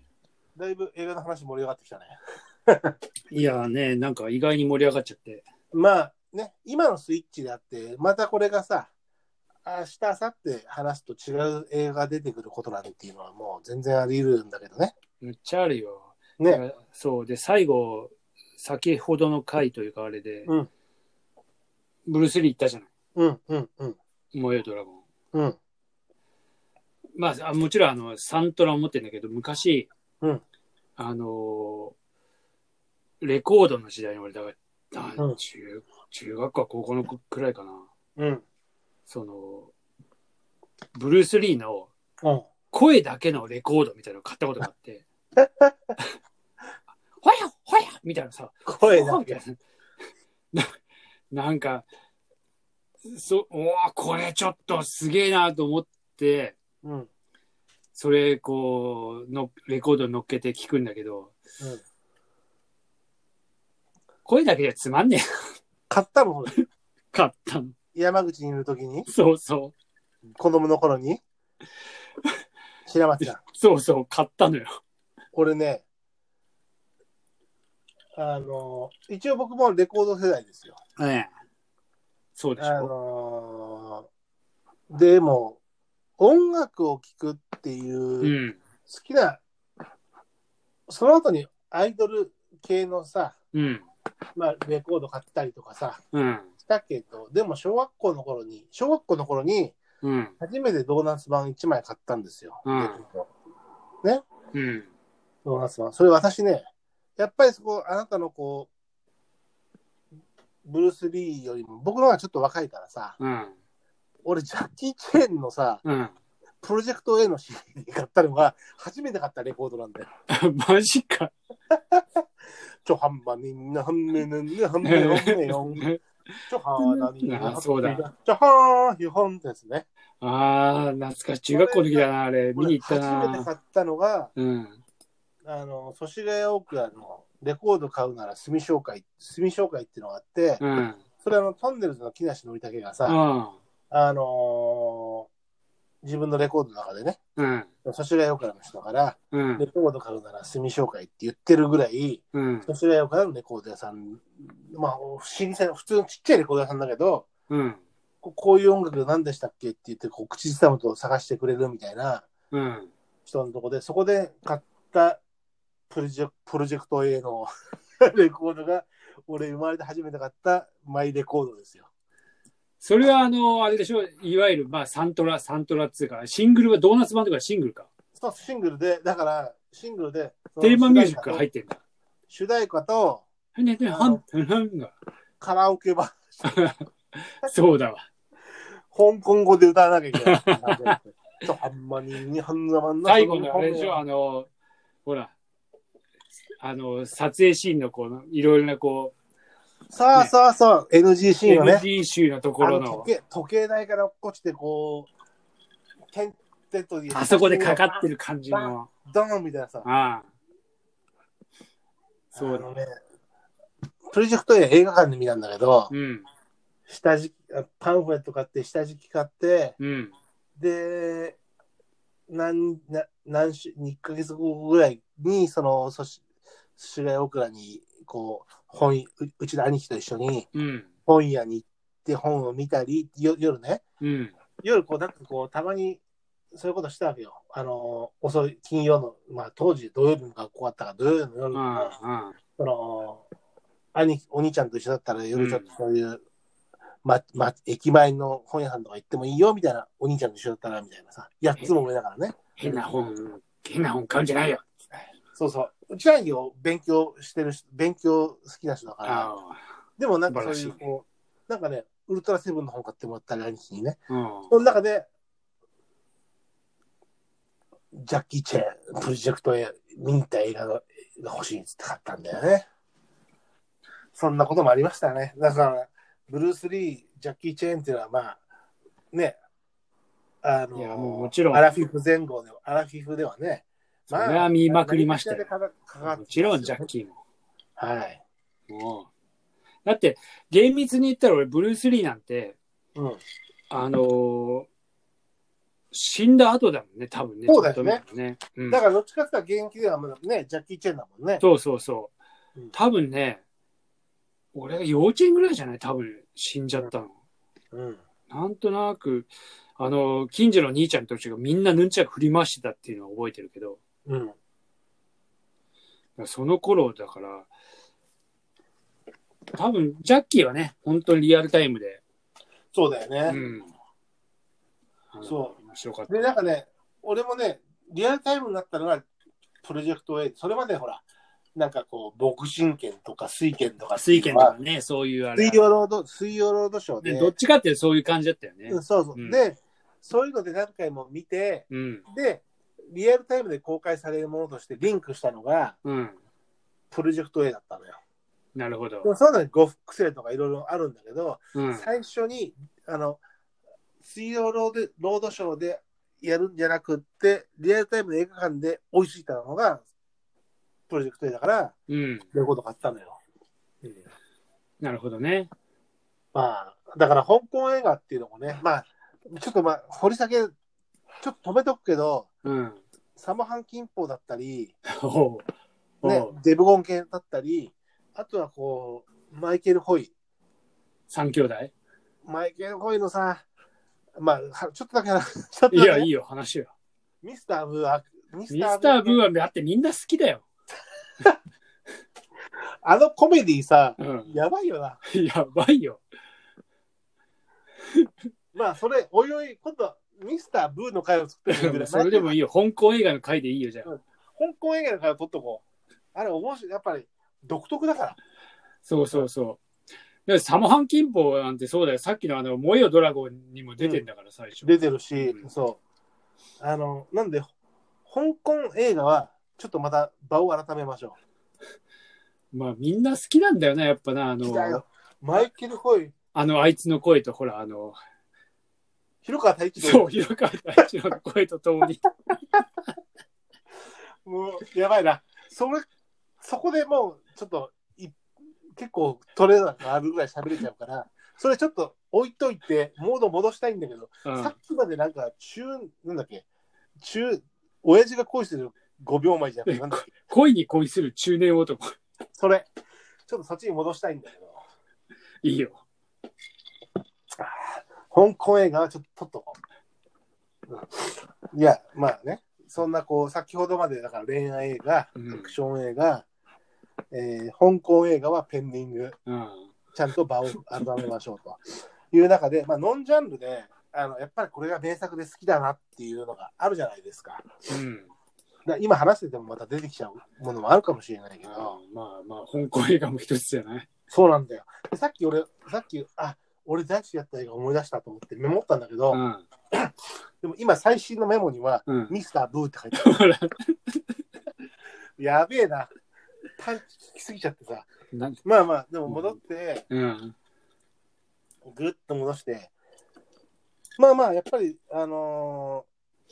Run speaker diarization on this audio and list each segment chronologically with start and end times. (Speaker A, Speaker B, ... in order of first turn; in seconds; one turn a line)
Speaker A: 0.6-2.1
Speaker A: 2.7-3.0
Speaker B: 3.3-5.5
Speaker A: 5.7-8.9
Speaker A: 9.6-14.9
Speaker B: 15.2-20.5
Speaker B: 22.1-22.9
Speaker A: 23.1-24.0
Speaker B: 24.3-25.0
Speaker B: 27.2-29.9
Speaker B: 31.0-31.9
Speaker B: 33.2-37.9
Speaker A: 38.2-38.4
Speaker B: 39.1-39.7
Speaker B: 40.9-41.9
Speaker B: 42.7-45.0
Speaker A: 45.4-45.7
Speaker B: 47.2-49.6
Speaker A: 48.6-49.4
Speaker B: 51.3-51.9
Speaker B: 53.1-56.5
Speaker A: 56.8-57.1
Speaker B: 57.9-61.3
Speaker B: 64.2-65.2
Speaker A: 65.9-66.5
Speaker B: 67.1-67.7
Speaker A: 67.9-69.1
Speaker B: 69.1-69.7
Speaker A: 70.4-71.2
Speaker A: 72.9-73.4
Speaker B: 73.2-74.8
Speaker A: 75.3-75.8
Speaker A: 78.2-80.8
Speaker B: 81.0-81.3
Speaker B: 82.3-82.9
Speaker A: 82.6-84.1
Speaker A: 84.9-85.6
Speaker A: 86.2-88.3
Speaker B: 88.2-88.6
Speaker A: 88.9-89.4
Speaker A: 90.9-93.3
Speaker B: 93.5-93.8
Speaker A: 94.3-96.0
Speaker B: 96.1-96.5
Speaker A: 96.7-99.8
Speaker B: 100.0-100.3
Speaker A: 100.4-103.3
Speaker B: 102.6-103.0
Speaker B: 104.5-104.9
Speaker A: 105.4-106.7
Speaker A: 107.2-108.7
Speaker A: 110.6-113.2
Speaker B: 113.2-113.5
Speaker A: 114.2-115.8
Speaker B: 115.8-116.1
Speaker A: 116.6-120.1
Speaker B: 120.3-121.3
Speaker A: 121.7-122.2
Speaker A: 122.8-125.8
Speaker B: 124.8-128.1
Speaker A: 126.5-129.8
Speaker B: 130.2-133.5
Speaker A: 131.5-134.3
Speaker B: 134.3-134.8
Speaker A: 135.4-140.6
Speaker B: 140.6-141.0
Speaker A: 141.2-143.2
Speaker B: 143.1-143.6
Speaker A: 143.9-145.3
Speaker A: 146.0-147.2
Speaker B: 147.4-147.7
Speaker A: 147.8-157.3
Speaker B: 149.3-149.6
Speaker B: 152.3-152.7
Speaker B: 157.5-157.8
Speaker A: 158.2-162.2
Speaker B: 162.5-162.9
Speaker A: 163.2-165.2
Speaker A: 165.9-167.5
Speaker A: 168.1-171.9
Speaker B: 172.8-177.9
Speaker A: 178.2-181.4
Speaker B: 180.6-181.8
Speaker A: 182.3-183.2
Speaker B: 183.5-184.9
Speaker A: 183.9-184.2
Speaker A: 185.4-186.7
Speaker B: 186.4-188.1
Speaker A: 188.9-194.0
Speaker B: 190.2-190.9
Speaker B: 193.0-194.5
Speaker B: 195.0-195.3
Speaker B: 196.6-199.1
Speaker A: 199.9-201.8
Speaker B: 201.4-203.1
Speaker A: 202.6-205.1
Speaker A: 206.1-209.9
Speaker B: 207.1-208.9
Speaker B: 209.8-210.3
Speaker B: 212.3-212.7
Speaker A: 212.3-212.9
Speaker A: 214.1-215.9
Speaker B: 215.9-216.3
Speaker A: 216.9-219.8
Speaker B: 219.8-220.1
Speaker A: 220.6-221.4
Speaker A: 222.3-226.2
Speaker A: 226.8-230.5
Speaker B: 230.5-230.9
Speaker A: 231.1-233.8
Speaker B: 234.0-234.3
Speaker A: 234.6-236.0
Speaker A: 236.5-241.9
Speaker B: 241.5-242.3
Speaker A: 242.6-243.2
Speaker A: 243.9-246.2
Speaker B: 245.3-245.7
Speaker A: 247.0-253.0
Speaker B: 252.6-254.6
Speaker A: 255.3-259.3
Speaker B: 259.0-259.6
Speaker A: 260.0-265.1
Speaker B: 260.3-260.8
Speaker B: 264.1-264.5
Speaker A: 267.9-272.6
Speaker A: 274.1-278.4
Speaker A: 279.1-279.4
Speaker A: 280.4-286.9
Speaker B: 280.7-281.6
Speaker B: 284.1-285.5
Speaker B: 286.0-287.2
Speaker A: 287.8-288.2
Speaker B: 288.7-289.1
Speaker B: 289.8-292.6
Speaker A: 292.9-293.2
Speaker B: 293.7-294.7
Speaker B: 295.9-298.8
Speaker A: 297.5-298.0
Speaker A: 298.7-301.4
Speaker B: 301.4-302.1
Speaker B: 302.7-303.4
Speaker B: 304.5-307.1
Speaker A: 307.7-308.0
Speaker B: 308.3-313.8
Speaker A: 314.1-314.3
Speaker B: 316.2-317.5
Speaker B: 319.5-322.0
Speaker A: 322.7-323.4
Speaker B: 323.3-323.7
Speaker B: 325.1-326.3
Speaker A: 325.2-325.6
Speaker A: 326.1-329.0
Speaker A: 329.6-331.0
Speaker A: 331.6-334.6
Speaker B: 333.9-335.6
Speaker A: 335.3-337.3
Speaker B: 337.0-339.4
Speaker A: 338.7-345.8
Speaker B: 341.7-342.0
Speaker B: 345.8-346.2
Speaker A: 346.9-348.0
Speaker B: 348.5-349.1
Speaker A: 349.0-353.2
Speaker B: 351.5-351.9
Speaker A: 354.0-359.8
Speaker A: 360.9-361.8
Speaker B: 361.9-362.2
Speaker A: 362.3-363.2
Speaker B: 364.8-365.5
Speaker A: 366.3-370.5
Speaker A: 371.2-372.3
Speaker B: 372.4-372.8
Speaker A: 373.1-374.7
Speaker B: 374.9-375.4
Speaker B: 376.0-376.3
Speaker A: 376.0-380.1
Speaker B: 381.1-381.7
Speaker A: 382.2-383.4
Speaker A: 384.2-386.1
Speaker B: 385.7-386.7
Speaker A: 387.2-389.2
Speaker B: 388.5-390.4
Speaker A: 392.8-395.0
Speaker B: 394.0-394.3
Speaker B: 395.1-396.0
Speaker A: 398.5-402.3
Speaker B: 401.5-403.9
Speaker A: 403.8-405.6
Speaker A: 406.1-408.2
Speaker B: 408.8-409.6
Speaker B: 410.3-415.5
Speaker A: 414.6-415.8
Speaker A: 416.6-417.5
Speaker A: 418.1-421.2
Speaker B: 422.5-424.8
Speaker A: 424.4-426.1
Speaker B: 426.3-427.9
Speaker A: 429.2-430.2
Speaker B: 429.8-432.0
Speaker A: 434.2-435.8
Speaker A: 436.4-438.2
Speaker A: 438.8-446.4
Speaker B: 444.2-444.5
Speaker A: 447.0-450.1
Speaker B: 449.6-451.9
Speaker A: 452.4-452.7
Speaker A: 453.3-454.6
Speaker B: 455.4-455.8
Speaker A: 457.4-459.5
Speaker A: 460.7-466.2
Speaker B: 465.1-465.5
Speaker A: 467.1-469.2
Speaker B: 469.2-469.7
Speaker A: 469.9-477.5
Speaker B: 477.7-478.1
Speaker A: 478.6-481.8
Speaker B: 481.4-483.9
Speaker A: 484.1-489.2
Speaker B: 489.1-489.4
Speaker A: 489.7-493.2
Speaker B: 491.9-492.1
Speaker B: 492.9-494.0
Speaker A: 495.2-495.9
Speaker A: 496.6-497.9
Speaker B: 498.1-498.4
Speaker A: 498.4-499.9
Speaker B: 499.1-499.4
Speaker B: 499.9-500.3
Speaker A: 501.6-502.7
Speaker A: 504.0-505.9